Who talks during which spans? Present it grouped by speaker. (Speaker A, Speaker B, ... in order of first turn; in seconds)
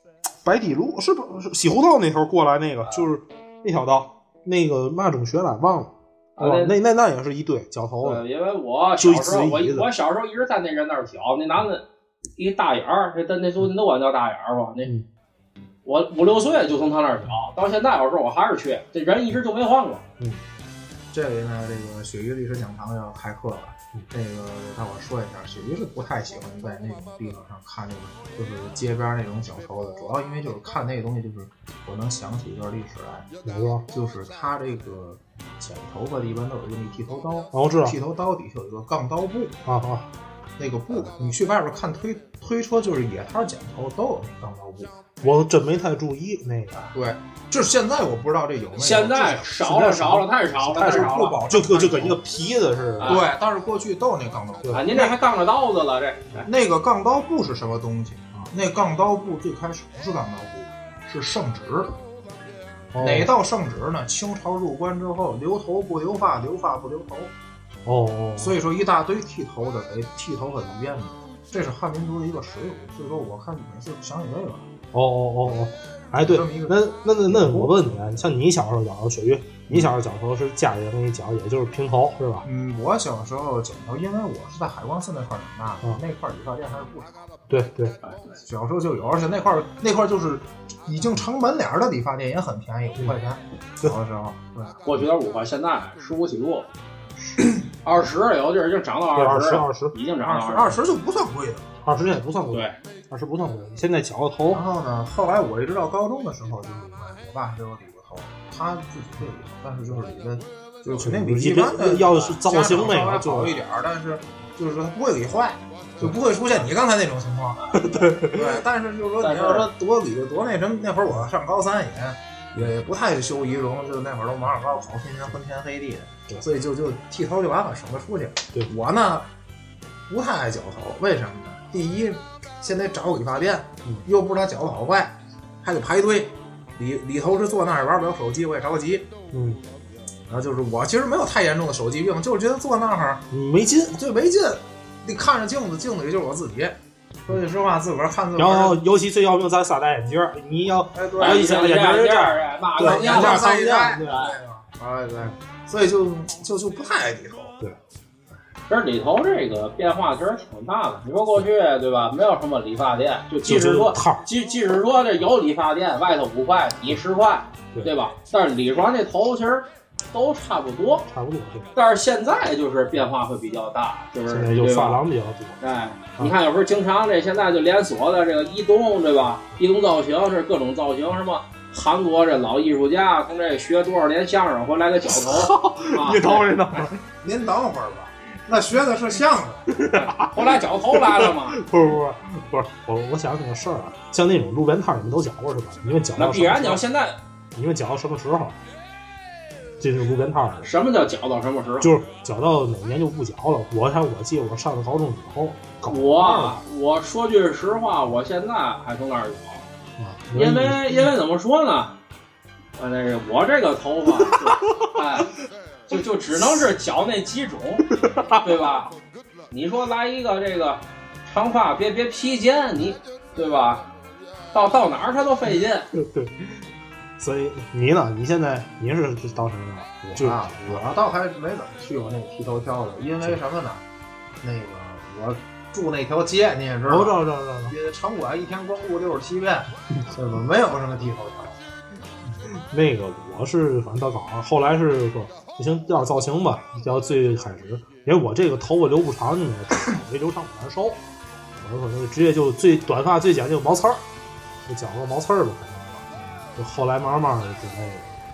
Speaker A: 0.4-8.2, 9.0-9.9, 33.4-33.9, 37.5-38.0, 39.6-40.1, 45.2-46.8, 49.5-53.2, 62.9-63.3, 67.8-68.6, 74.9-82.5, 87.5-88.0, 99.1-99.9, 101.8-104.6, 111.0-113.6, 117.7-118.6, 139.3-139.6, 143.3-144.0, 148.4-154.2, 163.4-164.3, 171.1-171.7, 174.3-175.6, 185.1-187.0, 189.7-196.8, 197.5-198.6, 199.8-200.7, 201.8-206.6, 210.0-211.1, 214.3-214.9, 218.0-218.4, 225.9-226.6, 227.2-230.9, 236.9-237.7, 242.4-251.0, 251.5-254.0, 254.7-258.1
Speaker B: 6.4-6.7, 8.0-11.8, 12.4-14.9, 15.8-20.0, 48.8-51.4, 53.0-53.2, 54.7-56.5, 88.0-88.4, 94.8-96.7, 97.8-100.8, 102.5-102.8, 117.6-118.0, 119.2-119.7, 151.2-154.3, 158.7-171.1, 171.7-175.0, 175.6-186.8, 189.9-191.6, 196.2-197.2, 200.6-202.0, 205.9-209.6, 210.3-211.9, 212.8-215.3, 215.9-217.9, 218.4-218.9, 219.5-223.9, 224.5-225.9
Speaker C: 21.1-33.3, 33.9-39.6, 40.6-44.9, 46.9-49.5, 50.7-52.2, 53.0-55.2, 56.4-62.0, 63.0-67.3, 68.4-74.7, 76.2-77.7, 82.4-87.5, 88.4-94.8, 100.2-101.8, 104.5-117.6, 118.2-129.3, 130.1-139.1, 140.3-143.2, 144.0-148.8, 150.9-151.7, 152.8-157.6, 187.2-189.7, 230.1-233.8, 234.4-241.6